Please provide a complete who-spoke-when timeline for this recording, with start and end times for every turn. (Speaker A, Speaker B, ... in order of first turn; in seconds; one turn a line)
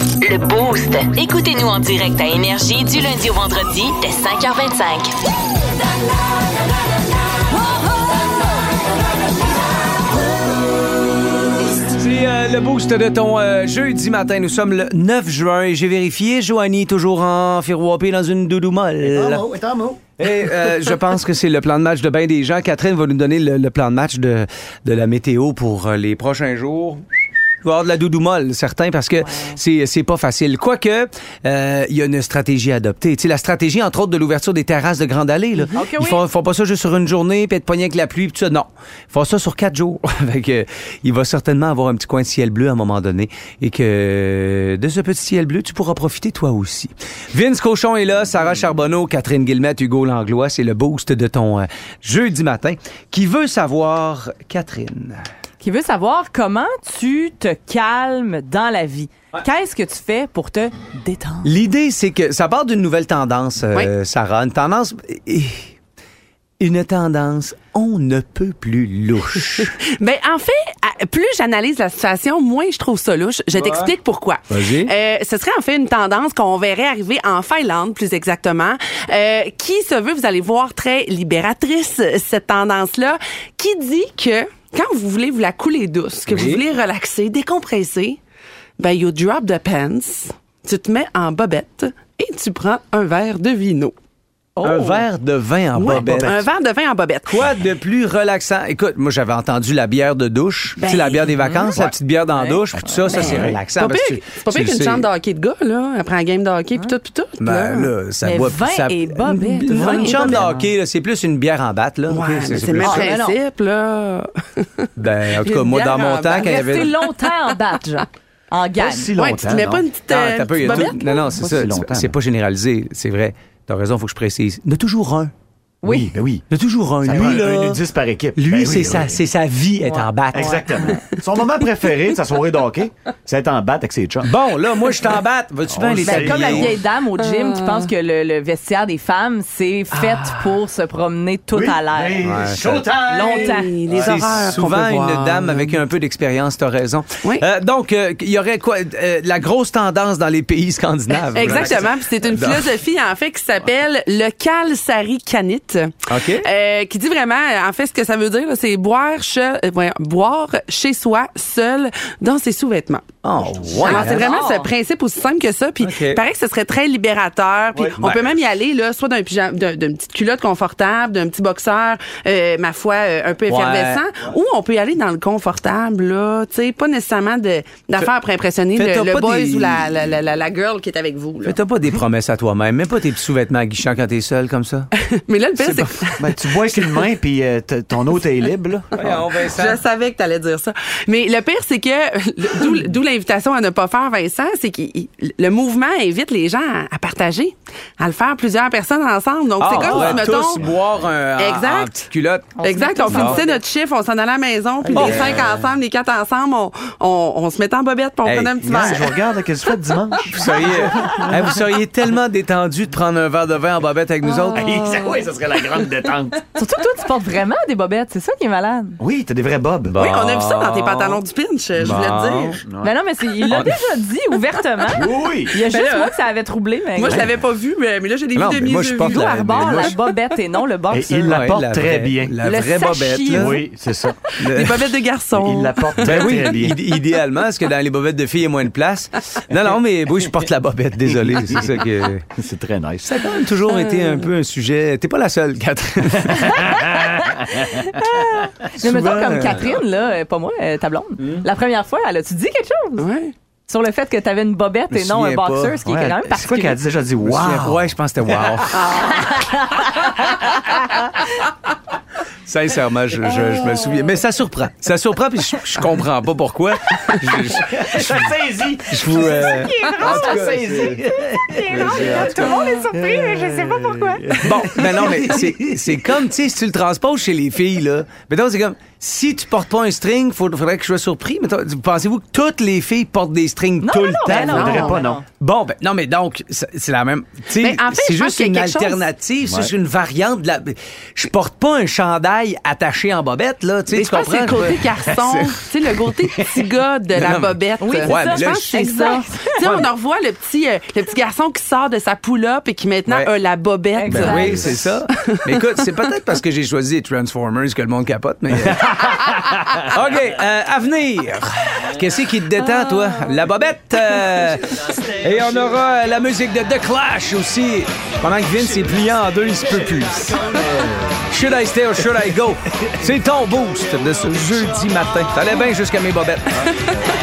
Speaker A: 0.2-5.1
Speaker B: 11.6-19.4
Speaker C: 19.0-20.0
Speaker B: 20.2-27.0
Speaker B: 27.6-55.2
Speaker D: 29.2-29.6
Speaker D: 35.7-36.2
Speaker D: 55.6-61.5
Speaker B: 61.4-65.7
Speaker B: 66.6-69.7
Speaker E: 69.6-88.2
Speaker B: 73.5-73.9
Speaker B: 74.5-74.9
Speaker B: 86.3-86.6
Speaker E: 88.8-93.9
Speaker D: 94.6-95.0
Speaker B: 94.6-96.3
Speaker C: 95.8-96.4
Speaker E: 95.9-97.4
Speaker B: 97.2-105.0
Speaker E: 100.8-101.9
Speaker D: 101.4-101.7
Speaker C: 102.7-103.6
Speaker E: 103.1-107.9
Speaker B: 107.4-113.1
Speaker D: 108.2-110.4
Speaker E: 109.7-110.5
Speaker C: 110.2-110.7
Speaker E: 112.1-117.0
Speaker D: 112.8-113.4
Speaker B: 115.0-116.9
Speaker D: 116.4-119.1
Speaker C: 118.8-119.8
Speaker E: 119.2-121.8
Speaker B: 120.1-125.3
Speaker C: 121.4-122.2
Speaker D: 125.8-126.1
Speaker C: 125.8-126.4
Speaker B: 126.5-127.8
Speaker C: 127.0-129.2
Speaker B: 128.4-130.5
Speaker C: 130.3-134.3
Speaker D: 130.4-130.6
Speaker B: 134.2-136.8
Speaker C: 135.7-136.8
Speaker D: 136.0-142.3
Speaker E: 137.2-137.9
Speaker E: 139.9-140.4
Speaker C: 141.5-143.7
Speaker B: 142.2-142.8
Speaker D: 143.1-144.2
Speaker E: 143.1-145.8
Speaker B: 143.9-152.8
Speaker E: 151.3-163.1
Speaker B: 156.1-156.4
Speaker B: 163.2-164.3
Speaker C: 163.4-164.0
Speaker E: 163.8-182.0
Speaker D: 163.8-164.7
Speaker B: 165.8-166.2
Speaker B: 168.0-168.3
Speaker B: 173.5-174.0
Speaker B: 178.8-179.9
Speaker B: 181.4-184.9
Speaker E: 185.0-187.0
Speaker B: 185.6-186.2
Speaker C: 186.2-189.2
Speaker B: 188.9-189.8
Speaker E: 189.1-200.7
Speaker B: 199.6-202.5
Speaker C: 199.8-200.3
Speaker E: 201.4-202.1
Speaker D: 202.6-203.6
Speaker E: 202.6-209.1
Speaker B: 203.1-203.4
Speaker B: 204.9-205.4
Speaker C: 205.0-205.4
Speaker B: 208.2-209.0
Speaker C: 208.6-211.5
Speaker B: 210.3-214.8
Speaker D: 214.2-215.1
Speaker C: 214.5-216.4
Speaker D: 216.5-219.0
Speaker C: 219.0-220.0
Speaker B: 219.9-221.2
Speaker E: 220.0-222.6
Speaker B: 221.8-222.6
Speaker C: 222.6-222.9
Speaker D: 222.8-227.2
Speaker B: 223.5-223.8
Speaker C: 224.9-225.6
Speaker E: 225.6-226.1
Speaker E: 226.9-230.1
Speaker B: 228.3-229.9
Speaker D: 229.1-231.4
Speaker C: 230.9-232.4
Speaker B: 231.2-233.6
Speaker D: 232.4-233.6
Speaker C: 233.3-234.2
Speaker B: 234.4-235.0
Speaker E: 234.4-236.7
Speaker C: 235.3-236.8
Speaker B: 236.0-242.3
Speaker C: 242.3-243.3
Speaker B: 243.0-246.8
Speaker C: 246.3-247.8
Speaker D: 247.5-253.1
Speaker B: 248.8-249.7
Speaker E: 253.0-253.3
Speaker D: 253.7-256.8
Speaker B: 254.9-255.7
Speaker C: 255.8-257.9
Speaker B: 257.2-259.0
Speaker E: 258.8-259.2
Speaker D: 259.5-259.9
Speaker B: 262.5-268.3
Speaker C: 267.6-275.9
Speaker B: 268.9-271.0
Speaker D: 269.4-271.0
Speaker D: 271.5-274.3
Speaker B: 271.7-272.6
Speaker B: 274.4-284.8
Speaker D: 283.8-285.2
Speaker C: 284.2-285.2
Speaker E: 284.3-285.0
Speaker B: 285.4-295.5
Speaker E: 287.6-289.0
Speaker C: 289.4-289.7
Speaker E: 293.9-304.8
Speaker C: 296.2-296.6
Speaker B: 297.1-298.8
Speaker D: 297.8-299.5
Speaker B: 299.6-299.9
Speaker D: 303.9-304.6
Speaker B: 304.1-309.1
Speaker C: 304.2-304.9
Speaker C: 308.7-309.7
Speaker B: 309.9-320.4
Speaker C: 314.9-315.8
Speaker C: 319.7-321.2
Speaker B: 321.3-326.7
Speaker E: 326.6-327.0